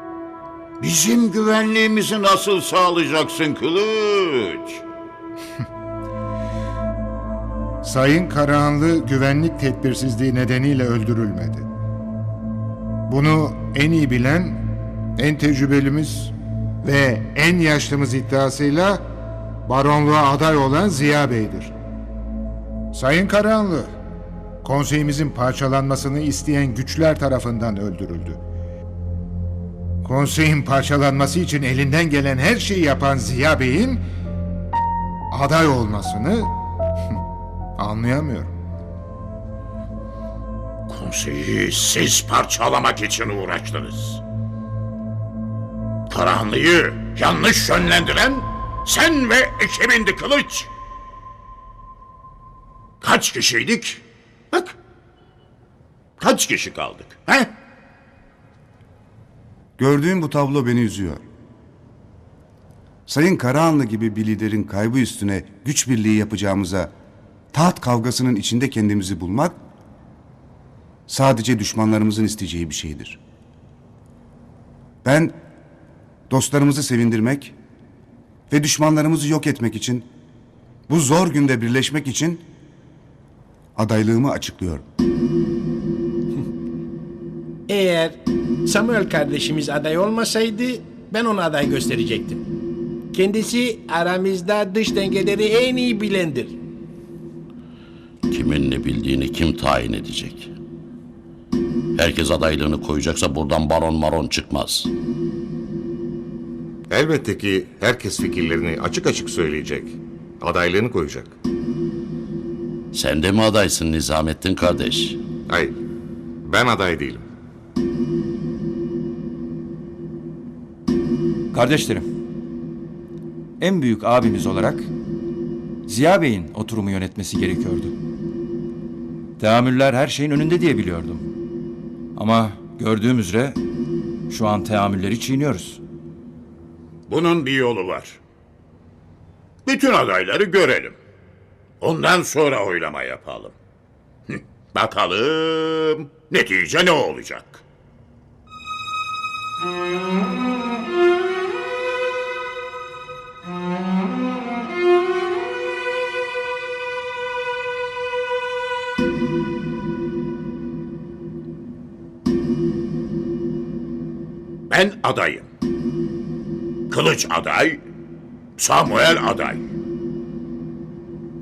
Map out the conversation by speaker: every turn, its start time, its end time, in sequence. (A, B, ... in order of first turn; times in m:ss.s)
0:00.8-0:04.8 A
0:07.8-0:11.7 B
0:13.1-0:14.6 B
0:15.2-0:19.0 B
0:19.6-0:21.7 B
0:22.9-0:23.9 B
0:24.6-0:28.4 B
0:30.0-0:34.0 B
0:35.3-0:36.5 B
0:37.8-0:38.5 B
0:40.9-0:44.2 A
0:46.1-0:50.7 A
0:53.0-0:54.7 A
0:56.2-0:57.5 A
0:59.8-1:01.2 C
1:03.1-1:06.9 C
1:07.5-1:09.6 C
1:11.1-1:13.2 C
1:15.0-1:15.4 C
1:16.3-1:17.5 C
1:18.5-1:20.1 C
1:20.9-1:22.4 C
1:23.8-1:24.8 C
1:27.7-1:32.4 D
1:33.1-1:36.6 D
1:38.3-1:40.5 E
1:42.0-1:44.9 E
1:46.9-1:51.3 F
1:52.9-1:55.2 E
1:55.5-1:55.8 F
1:56.4-1:57.2 F
2:01.5-2:02.1 G
2:03.6-2:04.9 G
2:05.9-2:07.9 G
2:09.4-2:11.2 G
2:12.2-2:13.6 G
2:14.3-2:15.8 G
2:17.1-2:18.2 A
2:19.7-2:21.0 A
2:21.8-2:23.5 A
2:24.3-2:27.6 A
2:44.7-2:45.5 A
2:46.9-2:47.8 A
2:48.6-2:49.6 A